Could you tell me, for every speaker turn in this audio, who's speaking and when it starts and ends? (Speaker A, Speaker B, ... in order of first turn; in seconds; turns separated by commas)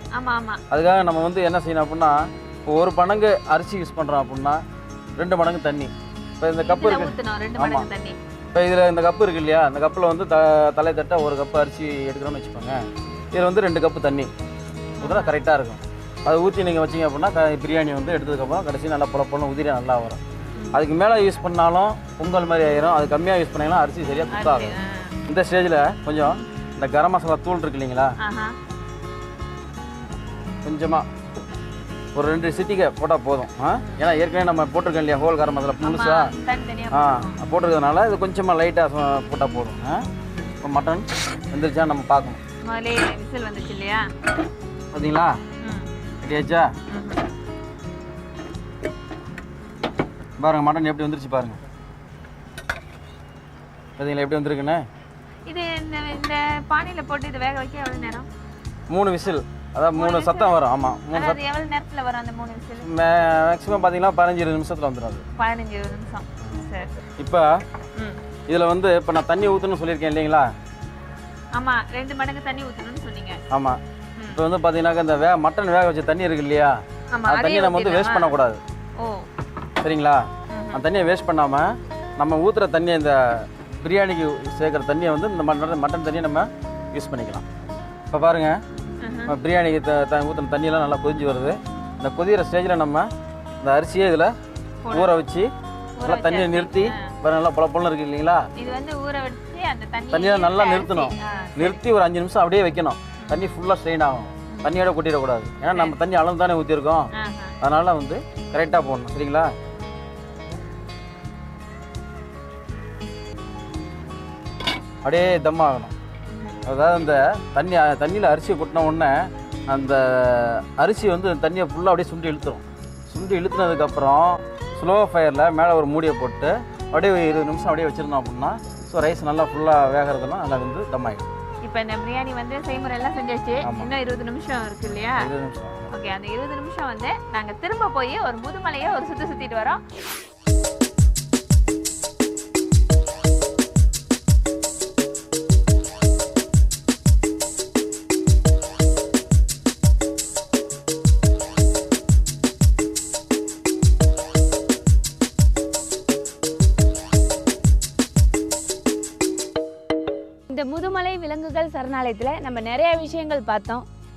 Speaker A: 0.1-0.6, Speaker B: 0.7-4.6, Speaker B: 5.2-7.9, Speaker A: 6.6-8.2, Speaker B: 8.5-12.8, Speaker B: 13.3-14.3, Speaker A: 15.0-15.3, Speaker B: 15.0-20.2, Speaker B: 20.7-28.1, Speaker A: 24.3-25.1, Speaker A: 28.2-28.5, Speaker B: 30.6-31.1, Speaker B: 32.1-36.3, Speaker A: 35.8-37.4, Speaker B: 36.9-40.0, Speaker B: 40.6-42.4, Speaker A: 42.6-44.1, Speaker B: 44.9-45.4, Speaker A: 45.6-45.9, Speaker B: 46.2-46.7, Speaker A: 46.9-47.2, Speaker B: 50.4-51.6, Speaker B: 54.0-54.8, Speaker A: 55.5-58.3, Speaker B: 58.9-61.4, Speaker A: 59.9-60.5, Speaker A: 61.1-62.9, Speaker B: 62.8-65.2, Speaker A: 65.4-66.9, Speaker B: 67.2-67.5, Speaker B: 68.5-70.5, Speaker A: 71.5-73.4, Speaker B: 73.5-78.6, Speaker A: 74.2-74.4, Speaker A: 77.1-78.3, Speaker A: 79.0-79.2, Speaker B: 79.8-87.4, Speaker A: 80.5-80.8, Speaker B: 88.1-88.6, Speaker A: 89.0-89.3, Speaker B: 89.3-93.1, Speaker B: 93.6-94.3, Speaker A: 94.8-95.1, Speaker B: 94.9-95.5, Speaker A: 96.0-97.1, Speaker B: 96.0-98.5, Speaker A: 98.5-101.8, Speaker B: 100.1-107.1, Speaker A: 103.2-103.5, Speaker A: 104.5-104.8, Speaker A: 105.7-106.0, Speaker A: 107.1-107.6, Speaker B: 107.6-109.5, Speaker B: 115.0-115.9, Speaker A: 116.3-116.6, Speaker B: 116.7-131.3, Speaker A: 131.6-135.3, Speaker B: 133.6-133.9, Speaker B: 135.2-135.9, Speaker A: 135.9-139.8, Speaker C: 160.5-163.8